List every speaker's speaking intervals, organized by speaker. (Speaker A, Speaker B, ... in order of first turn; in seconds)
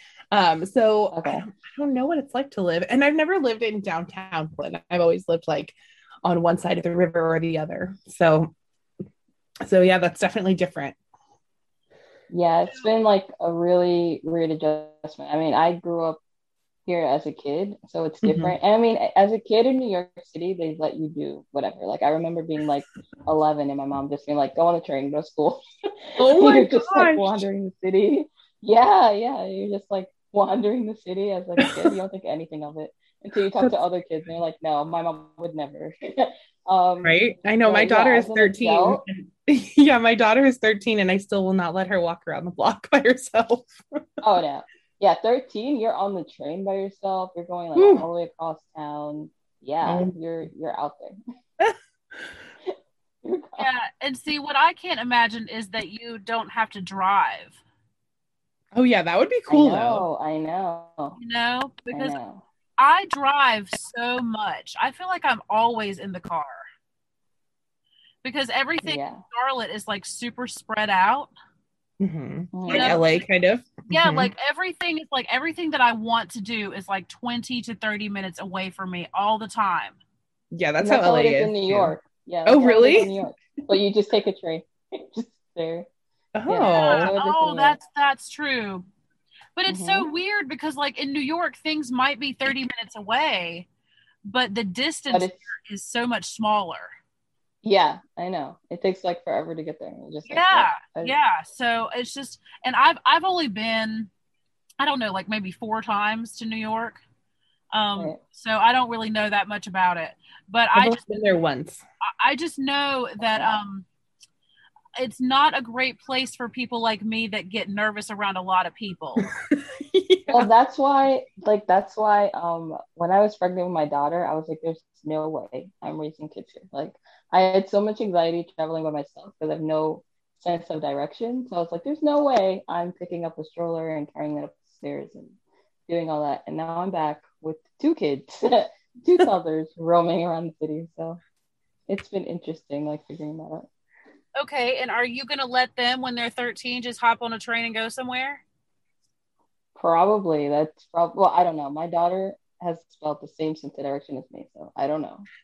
Speaker A: 0.3-8.5, 9.6-11.0, 18.2-18.5, 26.2-27.4, 31.6-31.9, 37.0-44.0, 47.8-48.0, 49.8-50.1, 51.6-52.3, 58.7-60.0, 72.0-74.3, 80.5-81.9, 82.5-83.2, 86.3-87.1, 110.8-111.8, 119.2-120.5
Speaker B: 1.1-1.4, 12.3-16.2, 16.9-39.0, 44.2-51.2, 52.7-53.7, 59.5-61.2, 61.9-62.4, 68.8-69.2, 72.5-73.0, 80.8-85.9, 86.5-87.8, 89.7-90.1, 95.1-95.4, 97.6-101.2, 120.3-135.3, 135.9-141.2, 141.9-143.7, 149.8-155.3
Speaker C: 53.6-57.6, 61.2-62.2, 62.8-66.7, 68.2-71.3, 72.7-73.2, 73.9-80.0, 86.6-88.9, 89.6-93.7, 94.2-97.0, 100.3-104.1, 104.8-107.0, 107.7-111.0, 112.2-113.9, 115.0-119.2, 144.4-148.4